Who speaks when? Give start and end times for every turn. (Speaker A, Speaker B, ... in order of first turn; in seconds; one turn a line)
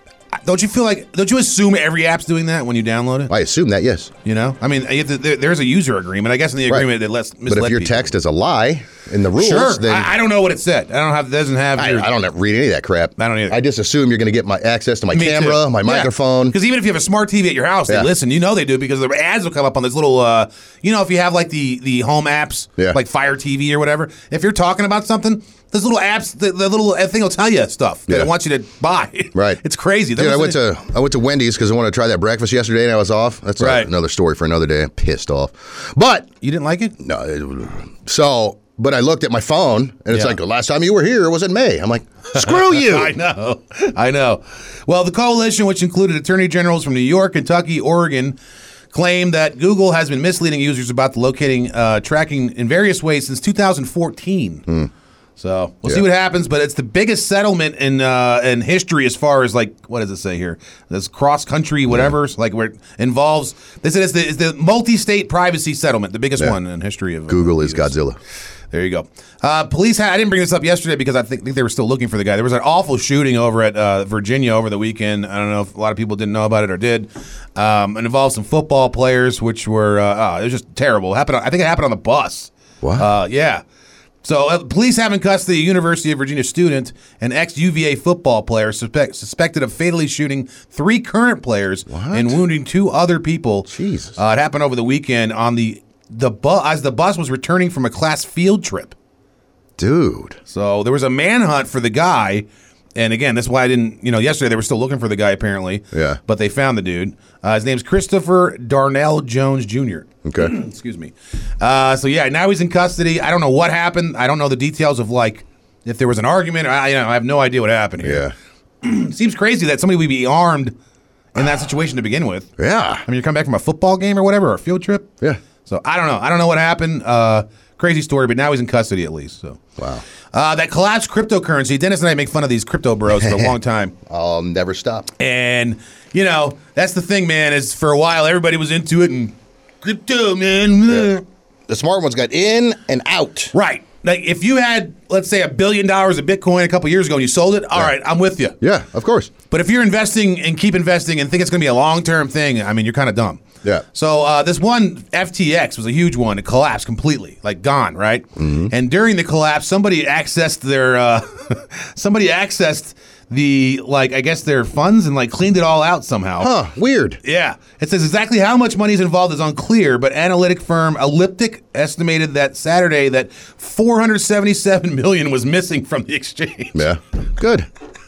Speaker A: 0.4-3.3
Speaker B: 3.3-4.1
Speaker A: 4.2-8.1
Speaker B: 6.7-6.9
Speaker B: 7.5-10.1
Speaker A: 9.3-12.1
Speaker B: 11.8-16.6
Speaker A: 13.2-13.6
Speaker A: 15.1-30.6
Speaker B: 29.3-29.6
Speaker B: 30.1-36.3
Speaker A: 33.6-33.9
Speaker A: 36.4-37.0
Speaker B: 37.0-43.1
Speaker A: 40.1-40.4
Speaker A: 42.3-48.4
Speaker A: 48.9-54.6
Speaker A: 55.4-68.0
Speaker B: 61.9-62.1
Speaker B: 67.3-68.2
Speaker A: 68.7-83.6
Speaker B: 82.8-83.1
Speaker A: 84.2-98.9
Speaker B: 91.9-92.4
Speaker B: 93.7-94.2
Speaker B: 99.8-100.4
Speaker A: 100.5-102.4
Speaker A: 103.0-118.3
Speaker B: 105.9-106.2
Speaker B: 110.2-110.5
Speaker B: 118.0-118.3
Speaker A: 118.8-120.8
Speaker A: 121.3-122.5
Speaker B: 122.6-123.0
Speaker A: 123.0-125.1
Speaker A: 125.6-129.6
Speaker B: 129.8-130.0
Speaker A: 130.3-133.9
Speaker B: 133.2-133.5
Speaker B: 134.1-135.1
Speaker A: 135.2-141.2
Speaker B: 141.7-143.5
Speaker A: 143.5-148.6
Speaker B: 148.6-149.3
Speaker A: 149.5-166.5
Speaker B: 158.4-158.7
Speaker B: 166.4-167.2
Speaker A: 167.2-176.9
Speaker B: 176.7-177.7